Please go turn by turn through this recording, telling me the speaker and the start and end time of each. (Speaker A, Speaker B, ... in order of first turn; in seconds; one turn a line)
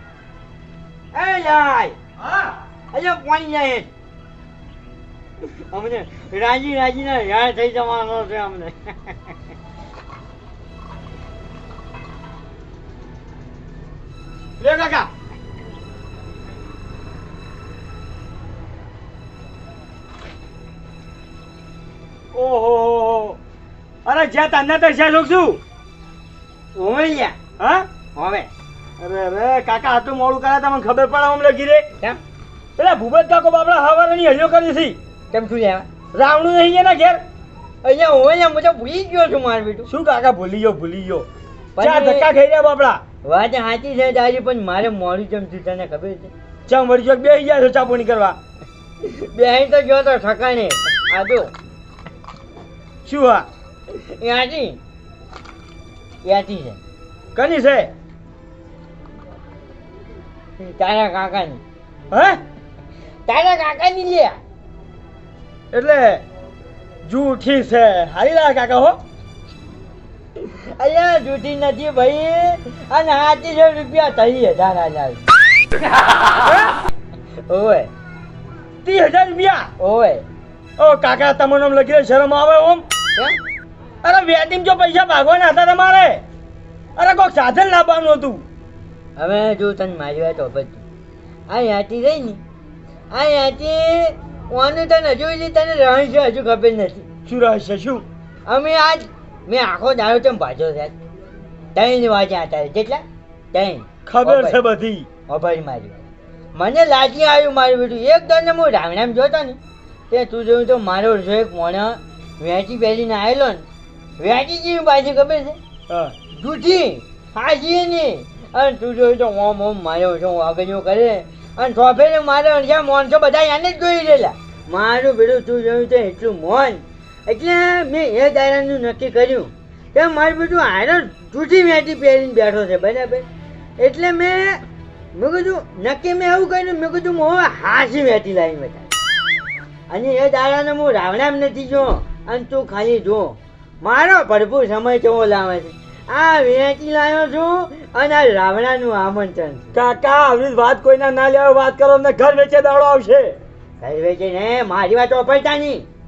Speaker A: 1.1-2.0
Speaker A: 2.9-3.9
Speaker A: 5.7-9.2
Speaker B: 14.6-15.1
Speaker B: 22.3-23.4
Speaker B: 24.1-25.6
Speaker A: 26.8-27.4
Speaker B: 27.6-27.9
Speaker A: 28.1-28.5
Speaker B: 29.0-31.9
Speaker B: 32.8-35.0
Speaker A: 35.3-35.9
Speaker B: 36.1-37.2
Speaker A: 37.8-39.9
Speaker B: 39.9-41.3
Speaker A: 41.8-42.3
Speaker B: 41.8-43.0
Speaker A: 43.2-46.3
Speaker B: 46.7-48.4
Speaker A: 49.0-51.5
Speaker B: 53.0-53.5
Speaker A: 53.9-54.8
Speaker A: 56.2-56.8
Speaker B: 57.4-57.9
Speaker A: 60.6-61.6
Speaker B: 62.1-62.4
Speaker A: 63.3-64.4
Speaker B: 65.7-66.2
Speaker B: 67.0-69.0
Speaker A: 70.5-75.2
Speaker B: 76.5-76.7
Speaker A: 77.5-77.9
Speaker B: 78.8-79.7
Speaker A: 79.8-80.2
Speaker B: 80.8-82.8
Speaker B: 84.0-86.2
Speaker B: 87.0-88.4
Speaker A: 89.2-90.8
Speaker A: 91.5-92.4
Speaker A: 93.1-97.1
Speaker B: 97.3-98.0
Speaker A: 98.5-100.9
Speaker A: 101.8-104.6
Speaker B: 104.1-105.1
Speaker A: 105.3-106.0
Speaker A: 106.5-109.6
Speaker A: 110.1-113.7
Speaker A: 114.2-115.6
Speaker B: 115.9-116.1
Speaker A: 116.3-133.3
Speaker A: 133.8-134.6
Speaker A: 135.2-138.9
Speaker A: 139.9-149.7
Speaker B: 149.7-153.4
Speaker A: 153.8-155.9